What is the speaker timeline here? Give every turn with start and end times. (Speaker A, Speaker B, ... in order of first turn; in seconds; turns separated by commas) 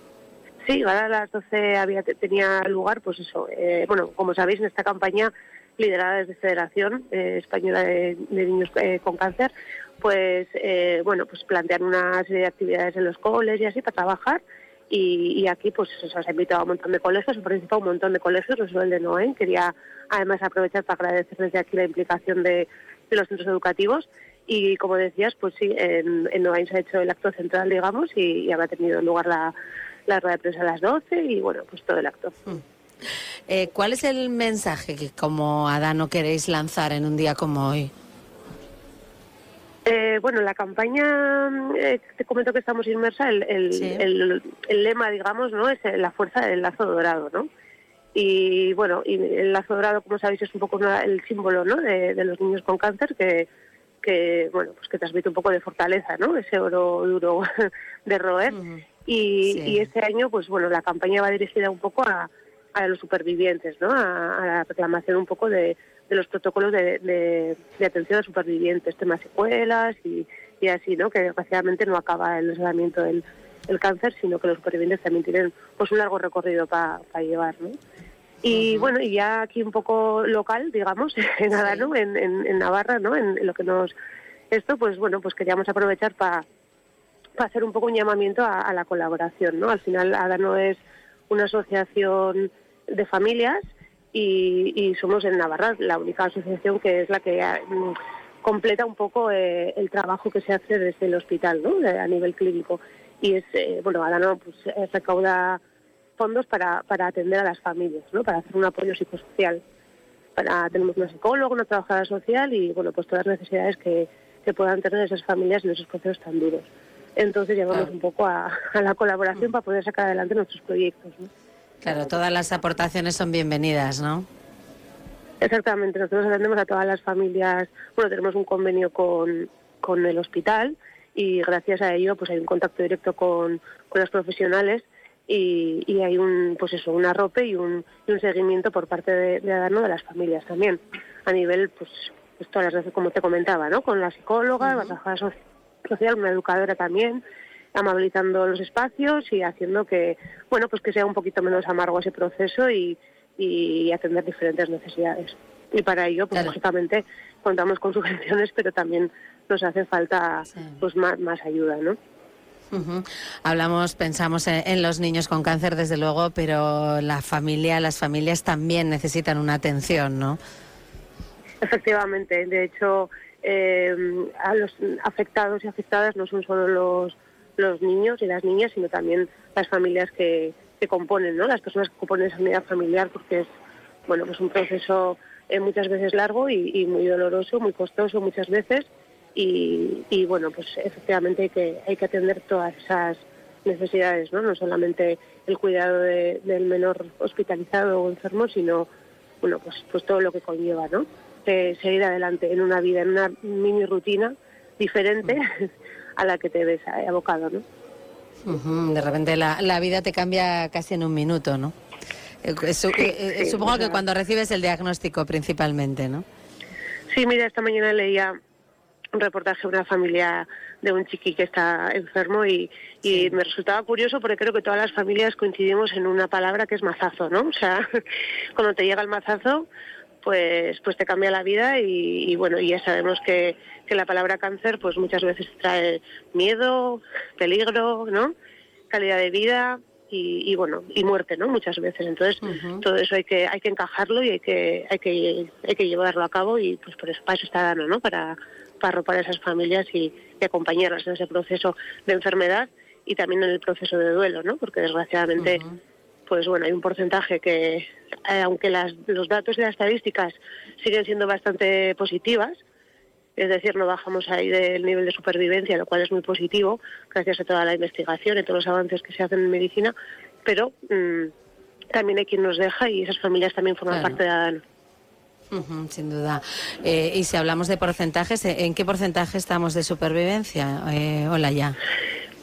Speaker A: 0.6-29.5, Speaker A: 30.1-32.3, Speaker B: 33.5-37.9, Speaker A: 39.9-47.5, Speaker B: 43.7-44.0, Speaker A: 48.1-53.5, Speaker A: 54.0-57.4, Speaker A: 58.0-77.8, Speaker B: 58.5-58.8, Speaker B: 59.5-59.8, Speaker A: 78.4-83.9, Speaker B: 78.5-78.9, Speaker B: 81.6-81.9, Speaker A: 84.5-86.4, Speaker A: 87.4-90.8, Speaker A: 91.3-93.6, Speaker A: 94.1-105.6, Speaker A: 106.2-109.6, Speaker A: 110.3-121.3, Speaker B: 121.8-124.2, Speaker A: 125.4-145.3, Speaker B: 144.6-144.9, Speaker A: 145.9-147.2, Speaker A: 147.7-161.9, Speaker B: 162.7-170.4, Speaker A: 171.6-183.5, Speaker A: 184.1-198.9, Speaker A: 199.4-205.5, Speaker A: 206.2-207.6, Speaker B: 208.4-211.7, Speaker B: 212.4-216.2, Speaker A: 213.0-214.0, Speaker A: 217.1-218.3, Speaker A: 219.1-227.8, Speaker A: 228.6-229.7, Speaker A: 230.2-238.3, Speaker A: 238.9-255.6, Speaker B: 242.4-242.8, Speaker B: 255.4-255.7, Speaker A: 256.3-262.6, Speaker A: 263.4-269.9, Speaker A: 270.4-271.3, Speaker A: 271.9-274.6, Speaker B: 273.9-274.2, Speaker B: 275.5-281.8